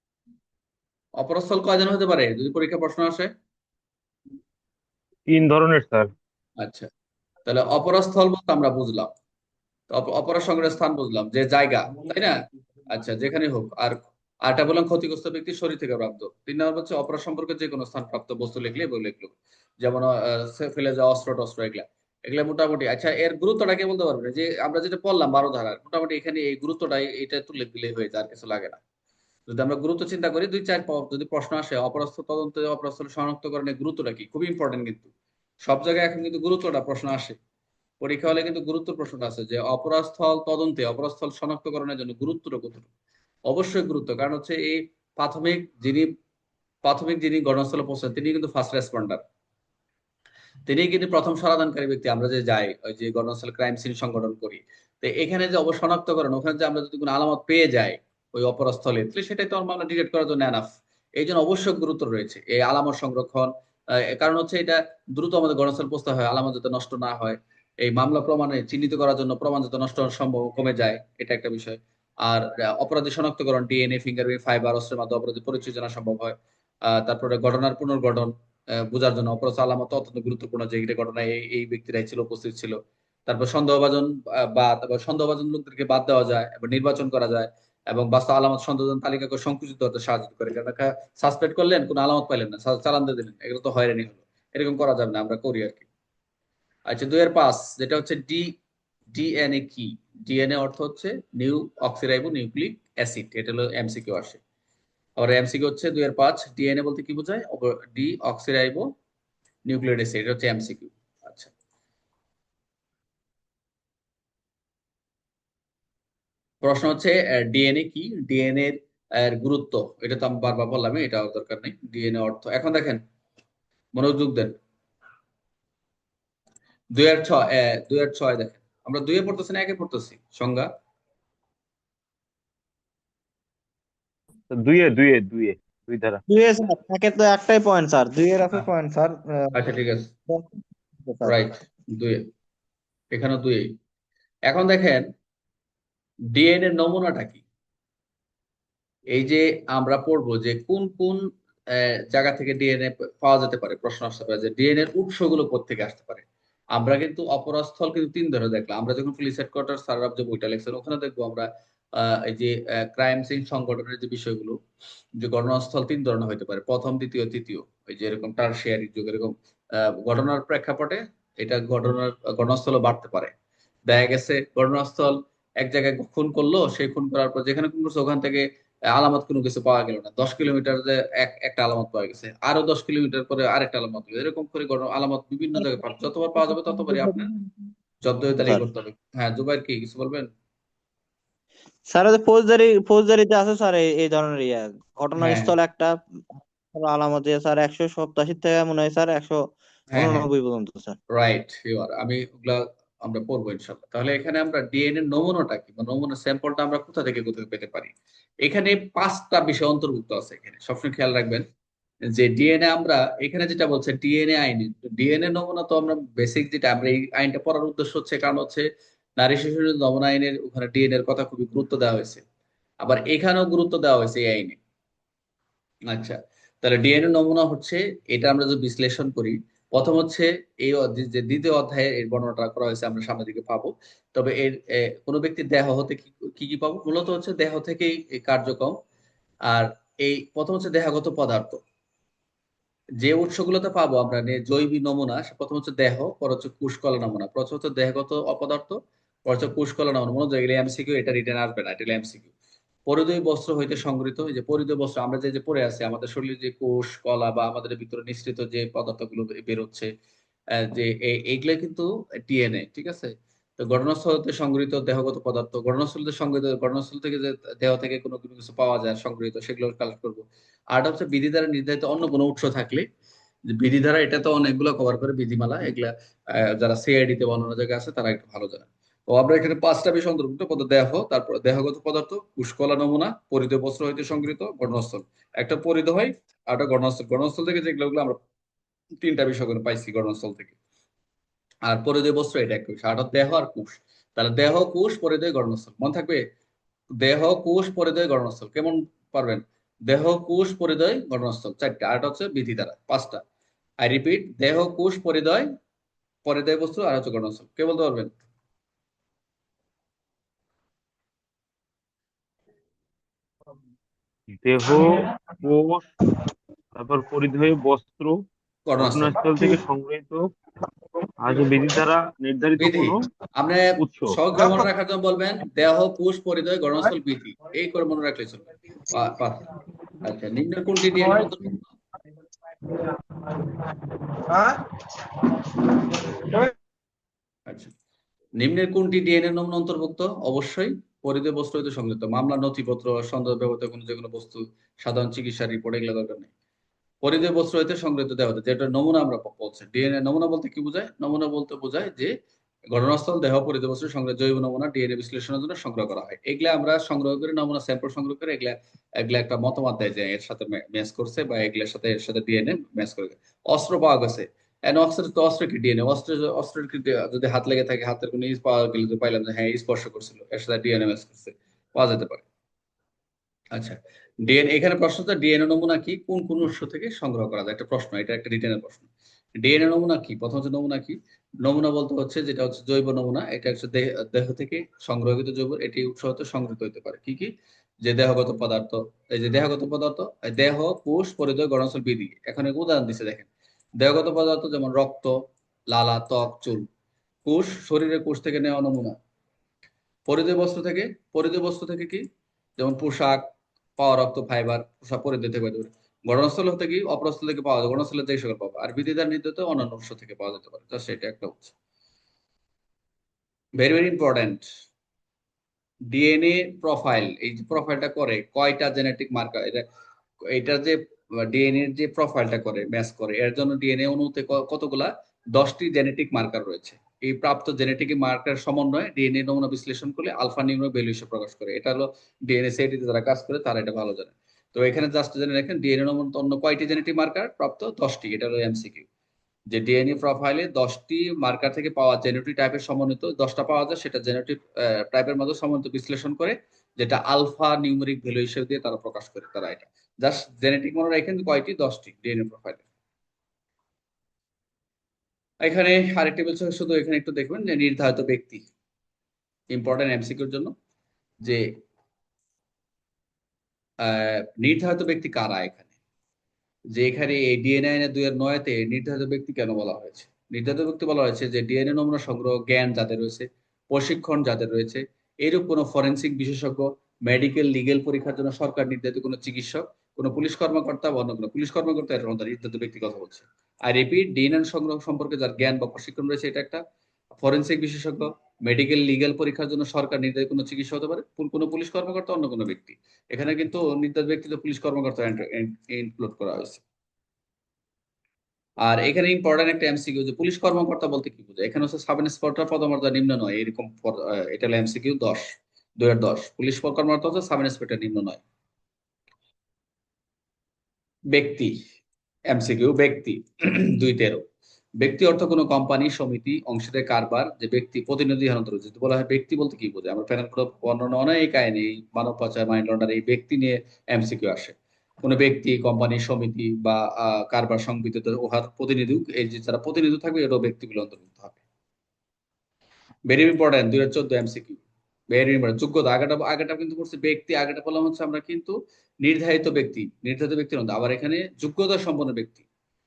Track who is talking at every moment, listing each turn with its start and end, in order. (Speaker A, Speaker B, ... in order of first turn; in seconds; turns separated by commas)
Speaker A: 1.2-3.3, Speaker B: 5.3-6.1, Speaker A: 6.6-6.9, Speaker A: 7.5-9.1, Speaker A: 9.9-12.3, Speaker A: 12.9-28.8, Speaker A: 29.5-35.1, Speaker A: 35.6-37.4, Speaker A: 38.0-42.9, Speaker A: 43.5-46.1, Speaker A: 46.8-49.2, Speaker A: 50.7-76.3, Speaker A: 76.9-95.8, Speaker A: 96.9-98.5, Speaker A: 99.1-104.4, Speaker A: 105.2-108.8, Speaker A: 109.7-111.5, Speaker A: 116.6-123.0, Speaker A: 123.9-124.5, Speaker A: 126.9-130.7, Speaker B: 134.5-136.2, Speaker C: 136.3-139.5, Speaker A: 139.5-140.1, Speaker C: 140.3-141.4, Speaker A: 141.2-142.2, Speaker A: 143.1-143.7, Speaker A: 144.5-145.1, Speaker A: 146.3-147.4, Speaker A: 149.1-151.2, Speaker A: 151.7-164.6, Speaker A: 165.2-173.3, Speaker A: 173.9-187.3, Speaker C: 186.4-187.7, Speaker A: 188.0-190.3, Speaker C: 191.9-195.9, Speaker A: 195.2-195.5, Speaker C: 196.7-199.4, Speaker A: 199.9-200.3, Speaker C: 199.9-201.0, Speaker A: 201.1-207.9, Speaker A: 208.4-211.4, Speaker A: 212.1-218.6, Speaker A: 219.2-222.2, Speaker A: 222.8-224.6, Speaker A: 225.9-238.8, Speaker A: 239.5-241.6, Speaker A: 243.0-252.3, Speaker A: 252.9-259.9, Speaker A: 260.6-272.9, Speaker A: 273.5-288.2, Speaker A: 289.0-290.5, Speaker A: 291.7-296.2, Speaker A: 297.0-303.2, Speaker A: 303.8-305.5, Speaker A: 306.2-308.1, Speaker B: 314.4-315.9, Speaker B: 316.7-318.2, Speaker A: 318.7-319.2, Speaker B: 318.8-320.3, Speaker B: 321.2-323.0, Speaker A: 322.6-329.5, Speaker B: 323.8-324.2, Speaker A: 330.0-331.6, Speaker A: 337.5-337.7, Speaker A: 338.4-346.3, Speaker A: 347.0-352.1, Speaker A: 352.7-372.2, Speaker A: 373.5-378.9, Speaker A: 379.4-387.3, Speaker A: 387.8-393.3, Speaker A: 393.8-395.1, Speaker A: 395.7-396.7, Speaker A: 397.2-398.9, Speaker A: 400.1-402.0, Speaker A: 402.6-403.3, Speaker A: 403.8-411.5, Speaker A: 413.6-414.4, Speaker A: 415.9-419.6, Speaker A: 420.3-438.9, Speaker A: 439.5-452.6, Speaker A: 455.4-458.4, Speaker A: 459.5-460.5, Speaker A: 463.8-465.7, Speaker A: 466.7-486.6, Speaker A: 487.2-496.6, Speaker A: 498.6-508.2, Speaker A: 511.1-511.6, Speaker A: 512.3-514.2, Speaker A: 514.8-531.4, Speaker A: 533.1-542.4